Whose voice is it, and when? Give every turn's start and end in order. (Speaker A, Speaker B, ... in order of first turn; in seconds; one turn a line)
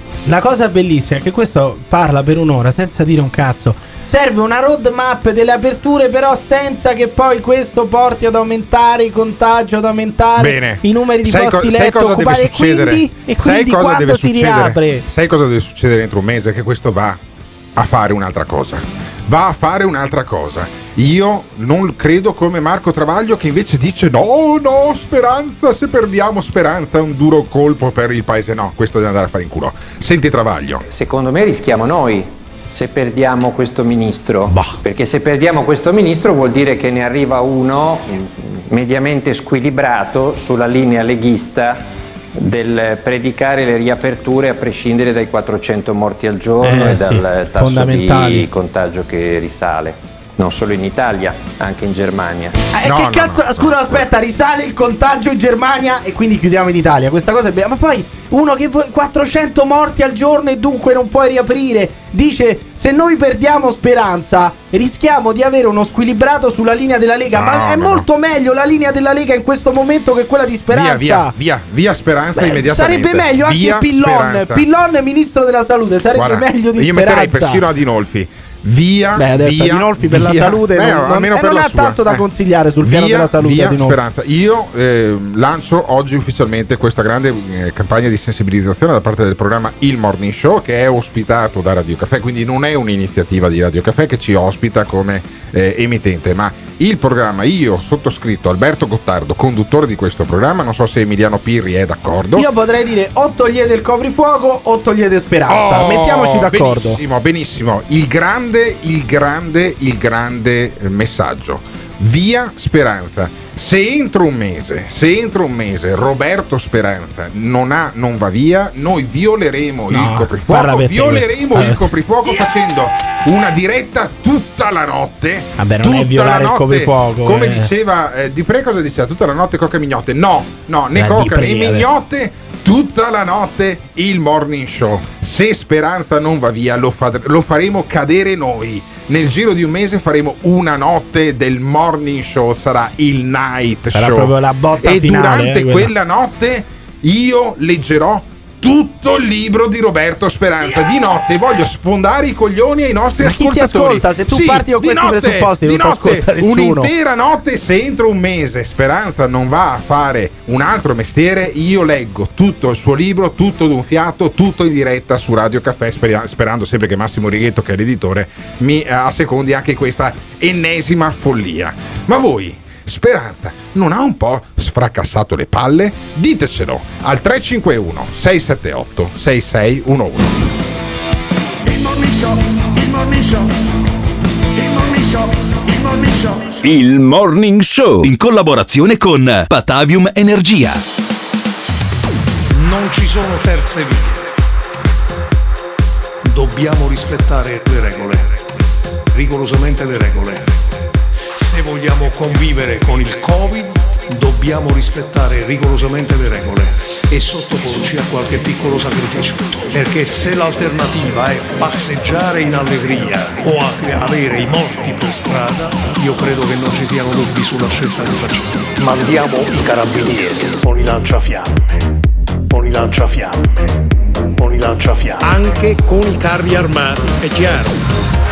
Speaker A: 0.3-15.0
Speaker B: 10.4-17.2
Speaker B: 17.8-30.8
Speaker C: 30.9-41.9
Speaker C: 42.4-52.6
Speaker A: 46.6-48.5
Speaker A: 52.7-71.3
Speaker B: 52.8-54.0
Speaker B: 67.3-68.1
Speaker B: 70.7-74.7
Speaker A: 72.4-77.6
Speaker B: 76.1-82.2
Speaker A: 79.2-84.0
Speaker B: 82.8-102.5
Speaker A: 102.4-107.0
Speaker B: 105.5-180.5
Speaker A: 119.9-121.8
Speaker A: 125.6-127.7
Speaker A: 130.9-131.9
Speaker A: 143.9-145.9
Speaker A: 153.2-156.9
Speaker D: 181.7-183.4
Speaker D: 184.6-186.4
Speaker E: 186.7-190.8
Speaker F: 192.5-194.3
Speaker F: 196.2-198.5
Speaker F: 199.1-200.6
Speaker F: 201.3-221.7
Speaker F: 222.5-223.6
Speaker F: 224.4-227.8